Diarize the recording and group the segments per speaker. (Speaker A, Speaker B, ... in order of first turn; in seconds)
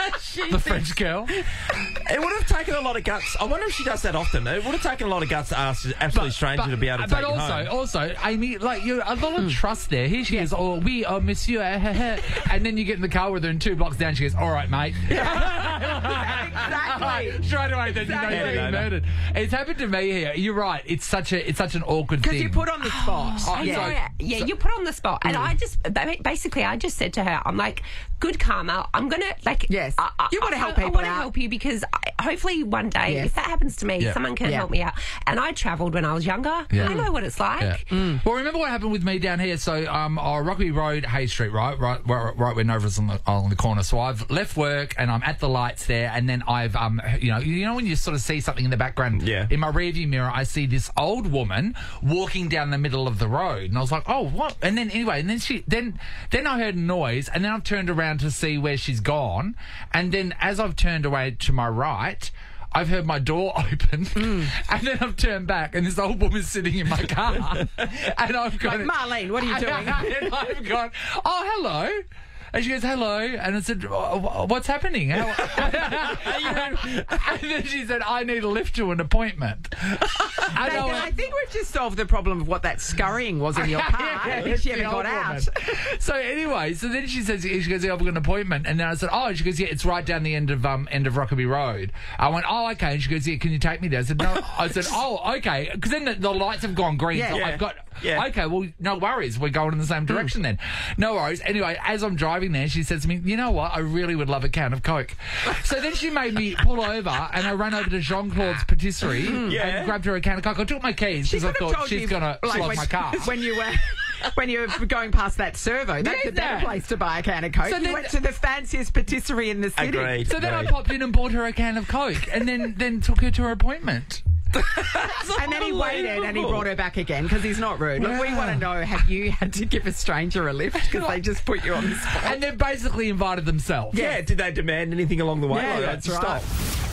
Speaker A: 0.5-1.4, 6.5-22.7, 23.4-24.0, 36.7-37.1, 37.6-81.1, 83.6-113.3, 116.0-116.8, 117.6-118.2, 120.2-124.2, 128.0-128.8, 130.8-131.2, 131.8-134.0
Speaker B: 2.0-7.7, 18.3-18.9, 49.1-49.5, 75.6-77.0, 97.3-98.3, 109.5-110.0, 119.8-120.8, 124.7-126.7, 133.9-136.5
Speaker C: 15.1-18.8, 22.2-24.5, 25.2-25.5, 29.7-31.3, 33.1-33.3, 36.8-37.1, 37.9-38.2, 64.2-64.5, 68.6-70.3, 80.5-85.5, 97.1-97.5, 109.2-109.6, 111.2-120.2, 125.3-132.4, 133.9-134.2, 135.5-136.5
Speaker D: 22.9-37.8